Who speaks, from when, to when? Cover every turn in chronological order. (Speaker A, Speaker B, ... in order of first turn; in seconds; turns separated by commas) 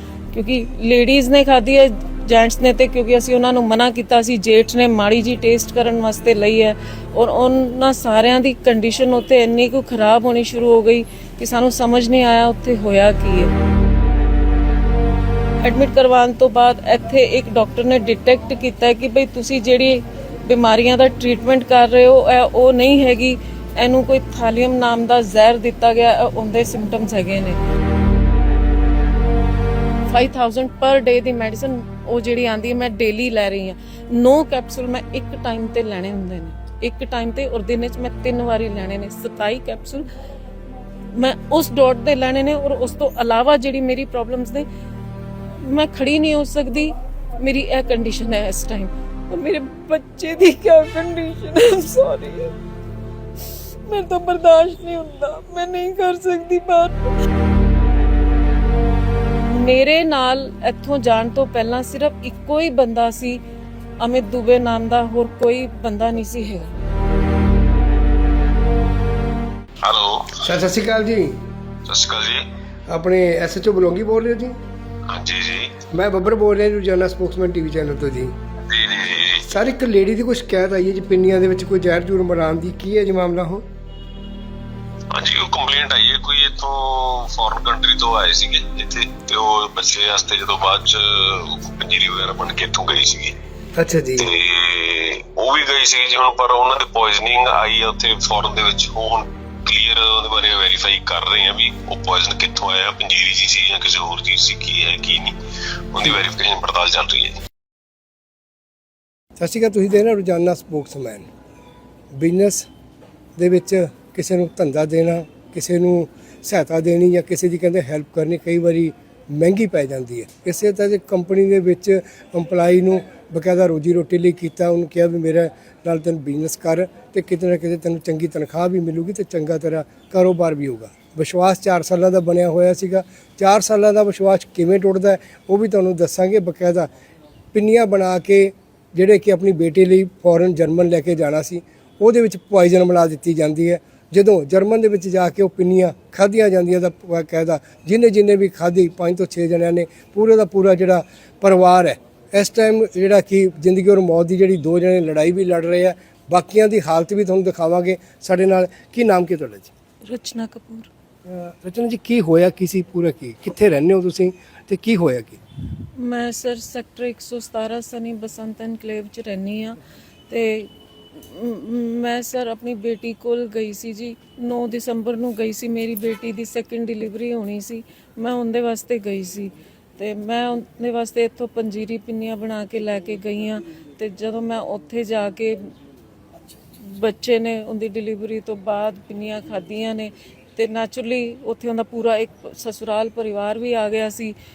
Speaker A: 0.3-13.5, Speaker A: 15.6-27.6, Speaker A: 30.1-40.1, Speaker A: 41.1-44.6, Speaker A: 45.6-52.5, Speaker A: 53.9-57.1, Speaker A: 59.4-63.4, Speaker A: 64.0-66.7, Speaker B: 69.8-70.5, Speaker C: 70.4-71.4, Speaker B: 71.9-72.4, Speaker C: 72.9-74.5, Speaker B: 75.1-75.8, Speaker C: 75.9-78.3, Speaker B: 78.7-79.5, Speaker C: 79.5-83.6, Speaker B: 85.1-93.3, Speaker C: 93.8-94.3, Speaker B: 94.2-105.3, Speaker B: 105.9-107.3, Speaker C: 109.4-111.2, Speaker C: 112.1-112.7, Speaker C: 113.4-136.9, Speaker C: 137.5-159.7, Speaker A: 160.0-160.9, Speaker C: 161.2-165.4, Speaker A: 165.9-185.7, Speaker A: 186.8-194.3